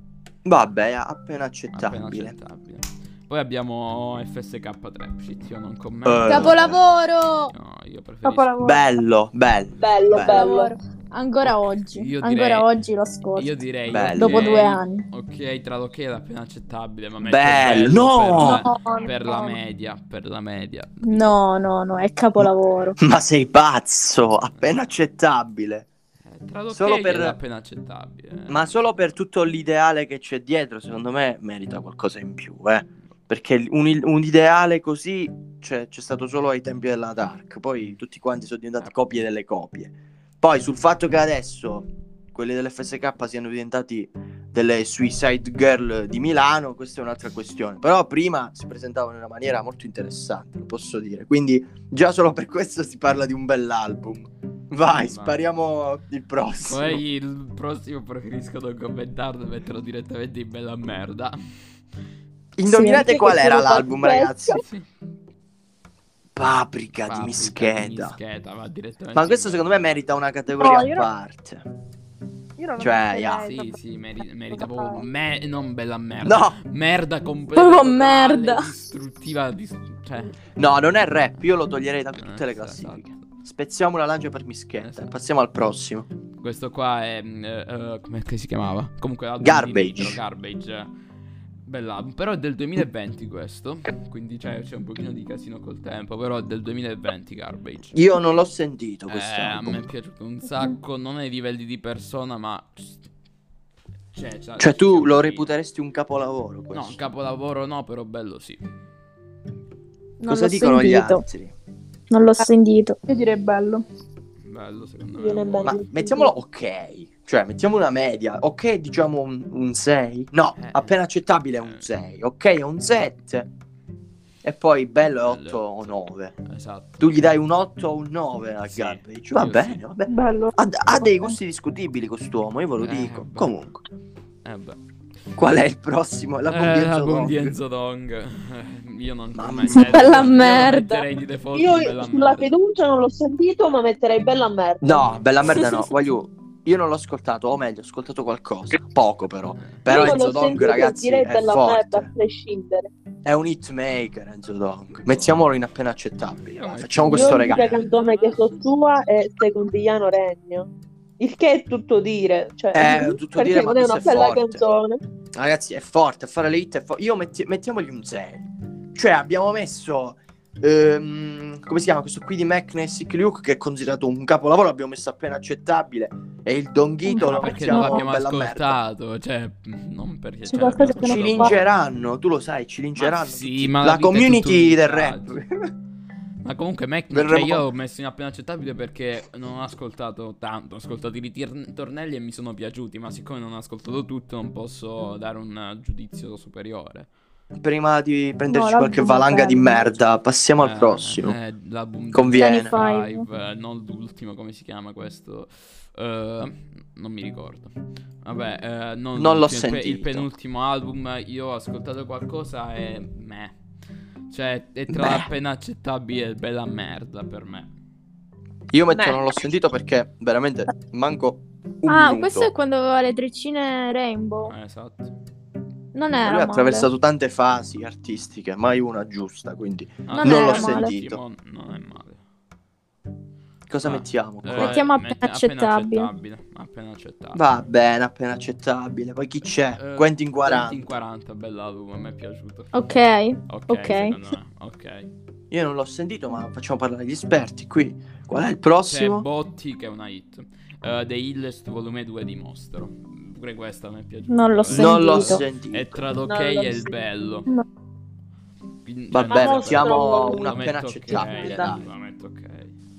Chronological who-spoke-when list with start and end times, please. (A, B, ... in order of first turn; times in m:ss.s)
0:00.4-0:02.3 A
0:01.7-0:06.8 B
0:06.0-0:06.8 A
0:06.2-0:07.5 C
0:07.5-0:08.6 B
0:08.2-0:08.8 D
0:08.6-0:10.5 A
0:09.8-0:10.7 E
0:10.1-0:13.6 C
0:11.4-0:12.7 B
0:13.4-0:21.4 B
0:13.9-0:14.6 A
0:14.2-0:15.1 C
0:17.2-0:18.7 A
0:18.4-0:19.1 C
0:18.8-0:19.1 D
0:21.0-0:23.0 C
0:22.4-0:25.9 A
0:24.5-0:24.8 B
0:26.3-0:28.8 B
0:26.7-0:27.4 A
0:28.5-0:57.0 A
0:54.9-0:55.4 B
0:56.6-1:01.4 B
1:02.6-1:04.6 A
1:02.7-1:03.1 C
1:02.9-1:04.6 E
1:04.5-1:04.8 B
1:06.4-1:08.2 A
1:07.0-1:09.9 B
1:09.2-1:11.7 A
1:10.5-1:11.1 D
1:12.6-1:13.8 D
1:12.8-1:13.5 A
1:13.4-1:20.4 B
1:14.5-1:15.0 D
1:16.2-1:16.6 A
1:17.6-1:18.7 C
1:20.6-1:26.1 A
1:22.2-1:23.2 B
1:24.8-1:25.1 B
1:26.4-1:30.9 B
1:29.4-1:30.2 A
1:31.7-1:38.0 B
1:37.9-1:39.9 A
1:39.1-1:43.0 B
1:44.1-1:45.5 B
1:44.6-1:47.0 A
1:46.7-1:48.6 B
1:50.2-1:51.2 C
1:50.3-1:51.5 A
1:52.1-1:53.0 C
1:53.1-1:53.8 D
1:54.4-1:55.8 B
1:55.2-1:56.3 E
1:55.6-2:03.5 A
2:00.6-2:01.0 B
2:01.6-2:01.9 B
2:04.4-2:06.3 A
2:05.2-2:07.3 B
2:07.0-2:13.8 A
2:08.7-2:09.8 B
2:10.1-2:11.4 D
2:12.8-2:13.6 B
2:14.4-2:14.8 B
2:15.4-2:17.6 A
2:16.5-2:22.5 B
2:19.4-2:20.6 A
2:19.7-2:21.0 C
2:21.5-2:25.1 E
2:24.8-2:32.1 A
2:29.6-2:30.2 B
2:29.9-2:32.9 E
2:33.2-2:37.7 A
2:35.0-2:35.3 B
2:36.3-2:38.6 B
2:37.1-2:45.0 E
2:42.7-2:44.6 A
2:45.4-2:58.8 A
2:57.1-2:58.0 D
2:57.2-3:01.6 B
3:00.5-3:01.6 D
3:01.0-3:05.7 A
3:03.0-3:05.4 B
3:06.4-3:17.1 B
3:07.1-3:07.7 A
3:17.6-3:21.4 A
3:18.5-3:19.9 D
3:20.6-3:33.5 B
3:22.1-3:22.8 A
3:22.4-3:23.2 C
3:29.2-3:30.3 A
3:34.3-3:37.7 B
3:34.9-3:35.3 A
3:38.7-3:42.5 A
3:38.9-3:39.2 E
3:41.9-3:44.5 C
3:44.5-3:45.1 B
3:45.9-3:46.9 C
3:46.2-3:51.2 A
3:50.1-3:52.2 B
3:50.2-3:50.9 C
3:53.7-3:54.8 A
3:53.8-3:57.6 B
3:54.5-3:56.1 C
3:57.3-4:01.0 A
3:59.8-4:02.8 B
4:02.7-4:04.2 C
4:03.5-4:05.1 B
4:05.5-4:09.3 A
4:08.9-4:17.5 B
4:14.3-4:15.4 C
4:14.7-4:16.0 A
4:16.3-4:16.9 E
4:18.8-4:22.7 B
4:19.1-4:21.8 A
4:19.3-4:20.6 E
4:21.1-4:21.8 E